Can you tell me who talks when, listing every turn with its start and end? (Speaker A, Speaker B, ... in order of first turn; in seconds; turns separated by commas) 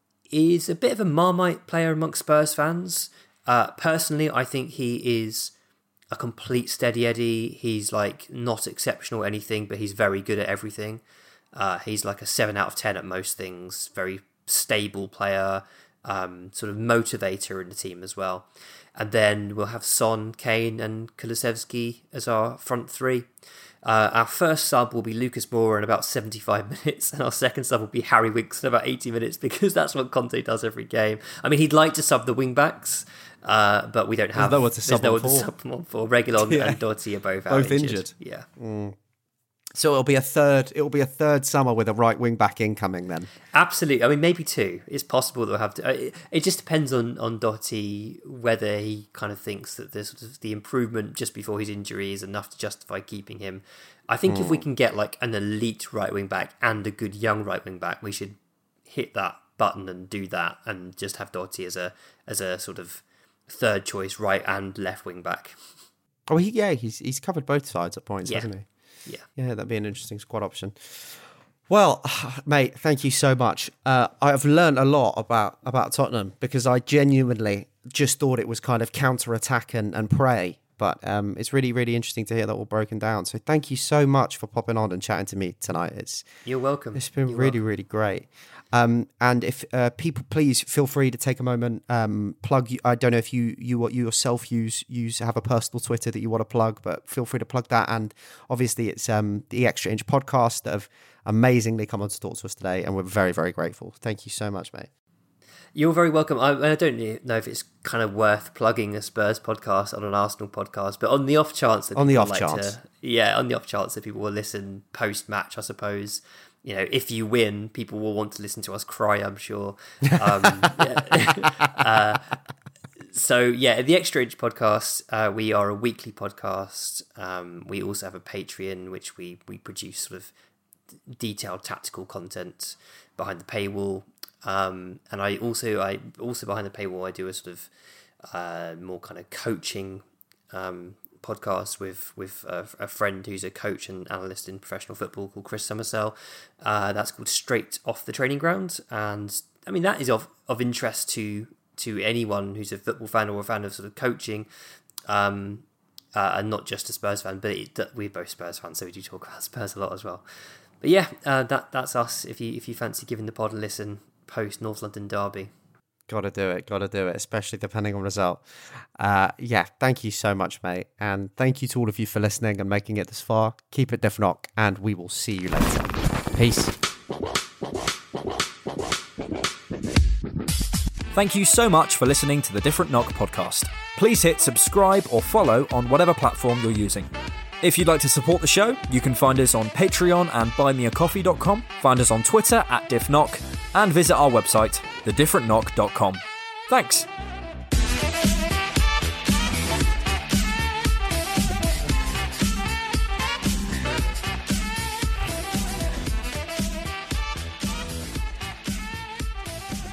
Speaker A: 0.3-5.5, Speaker A: 6.1-11.0, Speaker A: 11.5-23.3, Speaker A: 23.8-38.5, Speaker B: 34.4-35.5, Speaker B: 36.4-36.8, Speaker B: 37.5-39.0, Speaker B: 39.7-43.3, Speaker A: 43.5-58.4, Speaker B: 54.3-54.6, Speaker A: 58.9-65.5, Speaker B: 66.3-68.7, Speaker A: 68.2-68.5, Speaker B: 69.3-86.3, Speaker A: 86.4-87.6, Speaker B: 86.9-104.9, Speaker A: 105.7-122.3, Speaker B: 111.9-112.8, Speaker B: 120.2-120.8, Speaker A: 123.1-130.3, Speaker A: 131.2-137.7, Speaker A: 138.2-154.5, Speaker A: 155.1-165.5, Speaker B: 166.1-176.7, Speaker C: 181.1-197.1